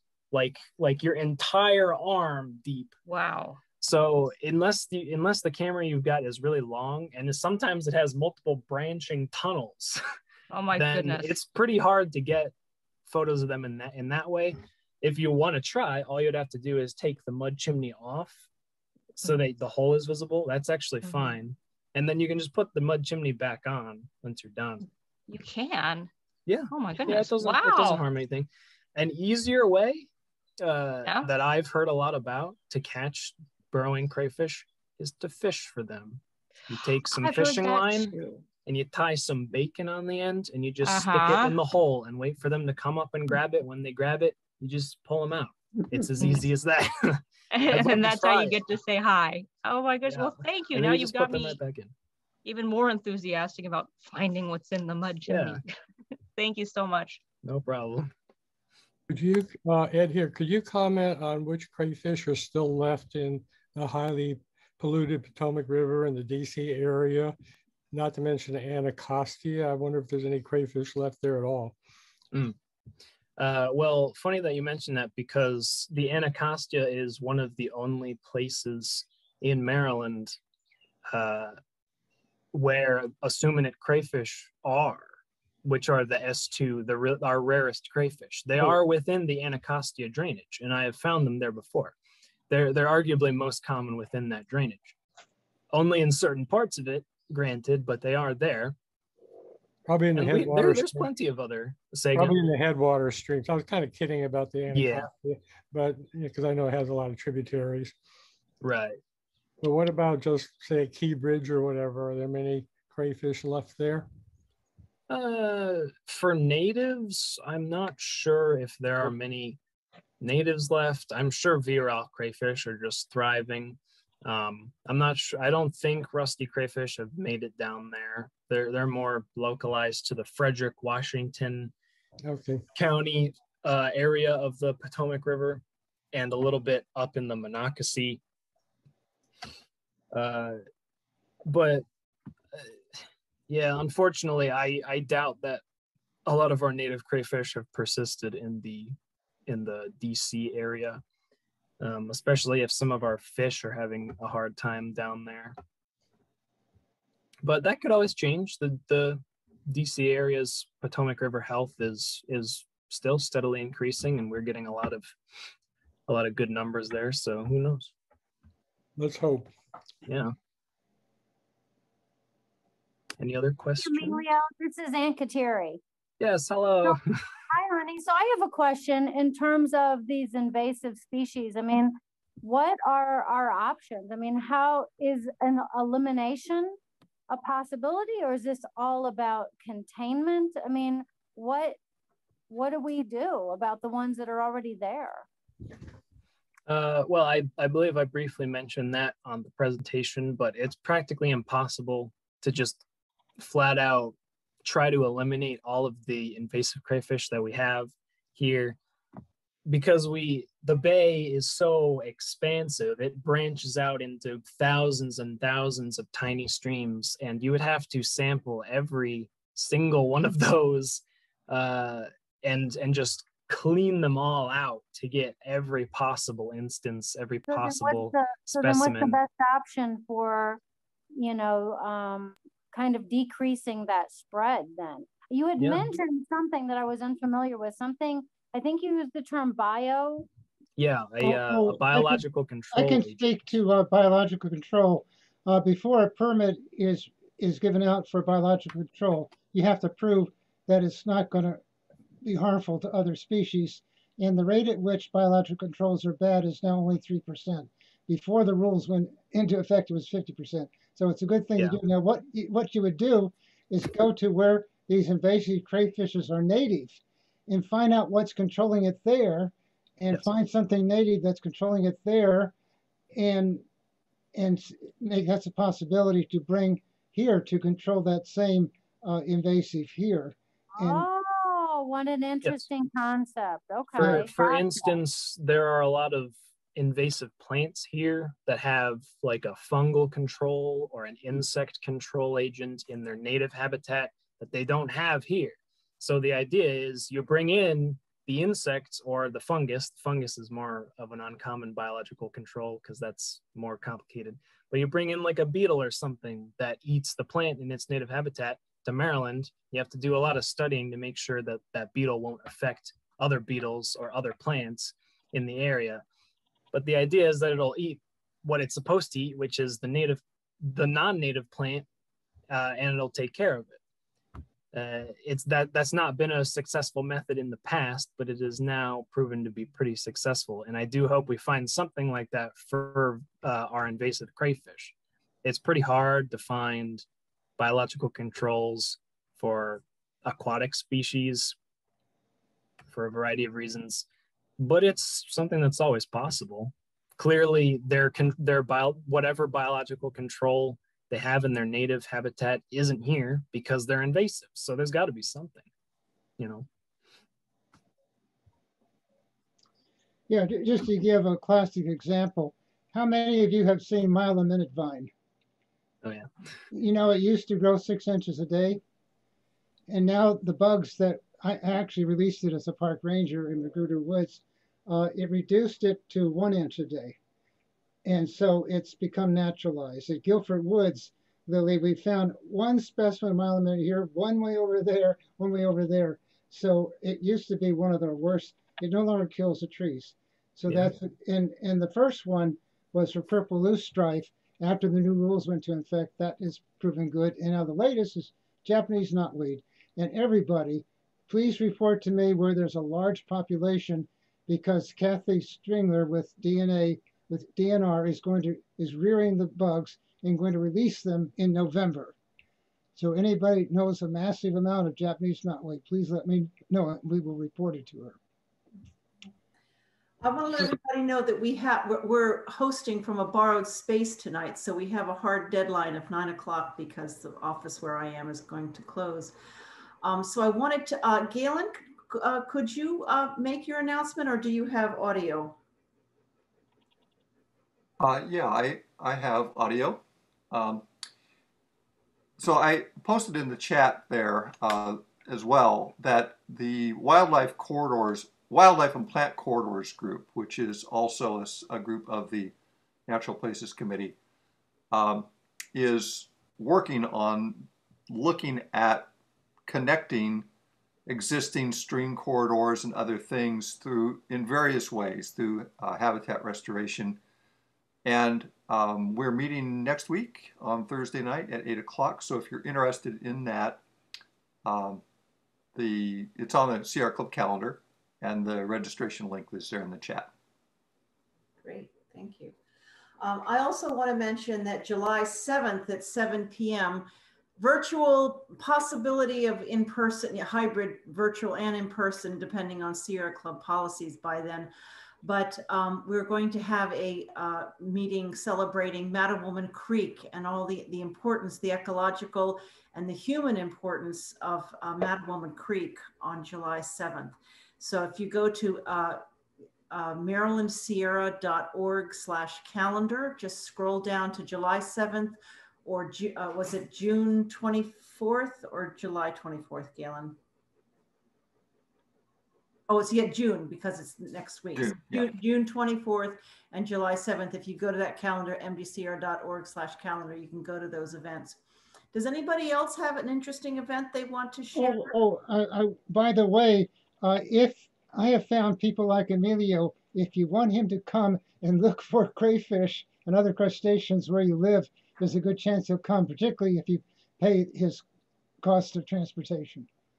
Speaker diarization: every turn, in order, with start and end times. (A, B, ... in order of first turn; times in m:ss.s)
0:00.3-0:02.9 A
0:03.0-0:03.6 B
0:03.8-0:10.0 A
0:10.5-0:11.4 B
0:10.7-0:12.5 A
0:13.0-0:18.5 A
0:19.1-0:24.8 A
0:21.0-0:21.4 B
0:25.3-0:26.1 B
0:26.5-0:30.1 A
0:26.7-0:28.0 B
0:30.6-0:48.6 A
0:31.0-0:31.3 B
0:37.2-0:38.4 C
0:40.8-0:41.6 B
0:47.5-0:51.6 B
0:50.1-0:51.9 A
0:52.4-0:55.6 B
0:55.3-0:55.6 A
0:56.4-0:57.2 B
0:57.4-0:58.1 A
0:59.1-1:07.3 D
1:07.9-1:11.8 D
1:13.4-1:20.4 A
1:21.1-1:21.6 A
1:22.5-1:31.9 A
1:32.5-1:35.0 A
1:35.7-1:38.7 A
1:39.8-1:41.1 D
1:40.2-1:42.4 A
1:42.1-1:47.9 D
1:44.7-1:45.1 A
1:48.6-1:49.0 A
1:49.6-1:54.1 D
1:55.1-1:59.6 A
2:00.2-2:11.7 A
2:12.2-2:12.6 D
2:12.7-2:18.2 A
2:20.1-2:20.6 A
2:21.5-2:21.8 A
2:22.5-2:25.6 A
2:26.2-2:28.9 A
2:29.5-2:31.0 A
2:31.8-2:35.5 A
2:37.4-2:45.1 A
2:46.1-2:47.9 A
2:49.0-2:49.5 D
2:50.1-2:50.3 A
2:53.2-2:54.2 A
2:53.8-2:55.8 C
2:56.2-2:57.1 A
2:57.5-3:06.8 C
3:07.3-3:11.8 C
3:12.5-3:15.3 C
3:16.7-3:22.8 A
3:23.4-3:28.8 A
3:29.7-3:49.2 A
3:47.5-3:50.6 C
3:51.2-4:00.3 C
3:55.6-3:55.9 A
4:00.8-4:03.3 A
4:01.2-4:11.6 E
4:12.2-4:32.5 E
4:33.1-4:33.6 E
4:34.3-4:41.0 E
4:40.7-4:44.9 C
4:44.0-5:16.0 A
5:16.7-5:21.8 A
5:22.5-5:23.8 A
5:24.7-5:37.0 A
5:37.6-5:41.5 A
5:42.9-5:44.1 A
5:44.6-5:55.7 A
5:56.4-5:56.7 A
6:00.3-6:05.1 E
6:06.0-6:06.3 A
6:06.7-6:08.8 E
6:09.9-6:17.2 E
6:18.0-6:52.1 E
6:53.0-6:58.2 E
7:00.2-7:09.3 F
7:10.0-7:15.6 F
7:18.0-7:20.8 G
7:22.4-7:32.5 G
7:33.1-7:34.2 G
7:34.9-7:39.1 G
7:39.7-7:40.5 G
7:41.1-7:47.2 G
7:48.0-7:53.8 G
7:54.6-7:55.0 G
7:55.7-8:00.3 G
8:01.6-8:02.5 F
8:03.2-8:14.7 F
8:15.2-8:29.2 F
8:29.9-8:40.4 F
8:42.9-8:51.6 F
8:44.7-8:45.3 G
8:52.1-8:55.1 F
8:54.7-9:08.0 E
9:08.6-9:09.9 E